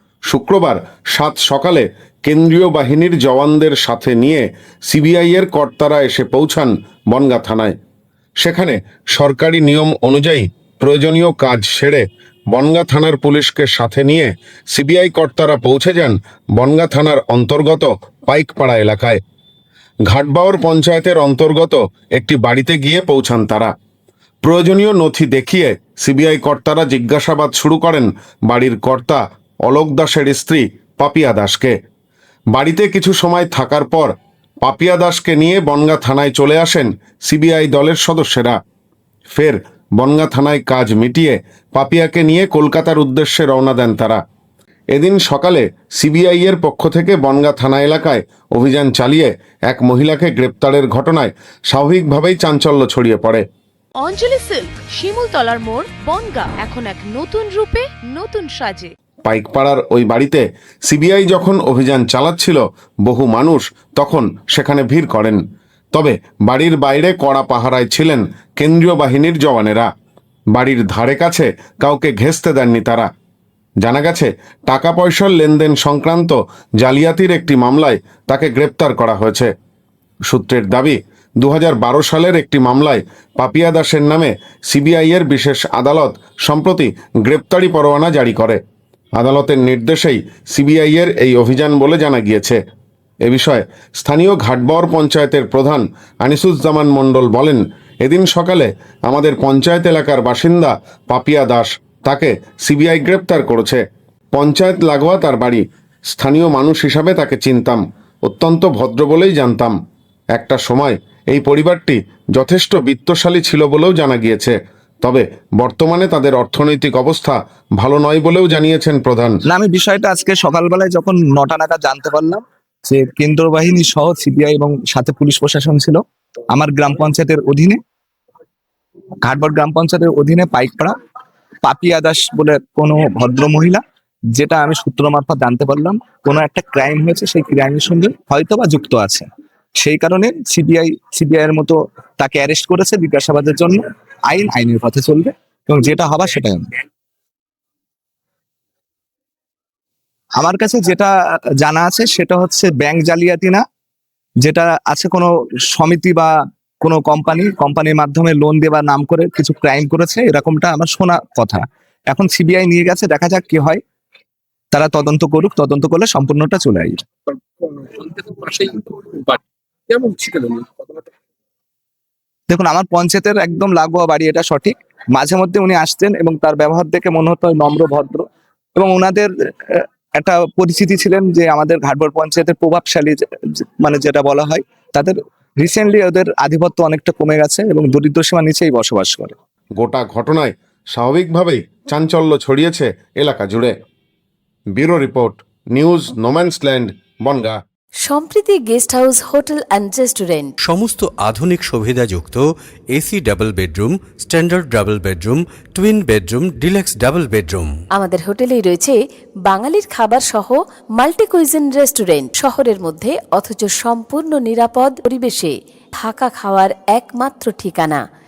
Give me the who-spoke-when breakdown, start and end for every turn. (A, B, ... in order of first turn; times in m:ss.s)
0:00.3-0:07.7 A
0:08.4-0:19.2 A
0:20.1-0:23.7 A
0:24.4-0:31.7 A
0:32.5-0:34.1 A
0:34.6-0:38.6 A
0:39.3-0:44.2 A
0:44.9-0:53.4 A
0:54.0-0:58.9 B
0:59.2-1:05.4 A
1:05.9-1:09.9 A
1:10.5-1:13.1 A
1:13.8-1:19.5 A
1:20.3-1:28.6 A
1:29.2-1:32.6 A
1:33.2-1:43.8 A
1:44.3-1:45.6 A
1:46.1-1:49.7 A
1:50.4-1:59.4 A
1:59.5-2:07.8 C
2:09.2-2:10.9 C
2:11.6-2:13.8 C
2:14.3-2:26.7 C
2:30.4-2:33.6 C
2:34.4-2:43.8 C
2:44.7-2:47.0 C
2:47.6-2:49.4 D
2:49.9-2:50.7 D
2:52.5-3:09.3 C
3:09.8-3:13.7 A
3:14.8-3:17.6 A
3:18.0-3:20.5 E
3:20.6-3:27.7 F
3:27.9-3:38.0 E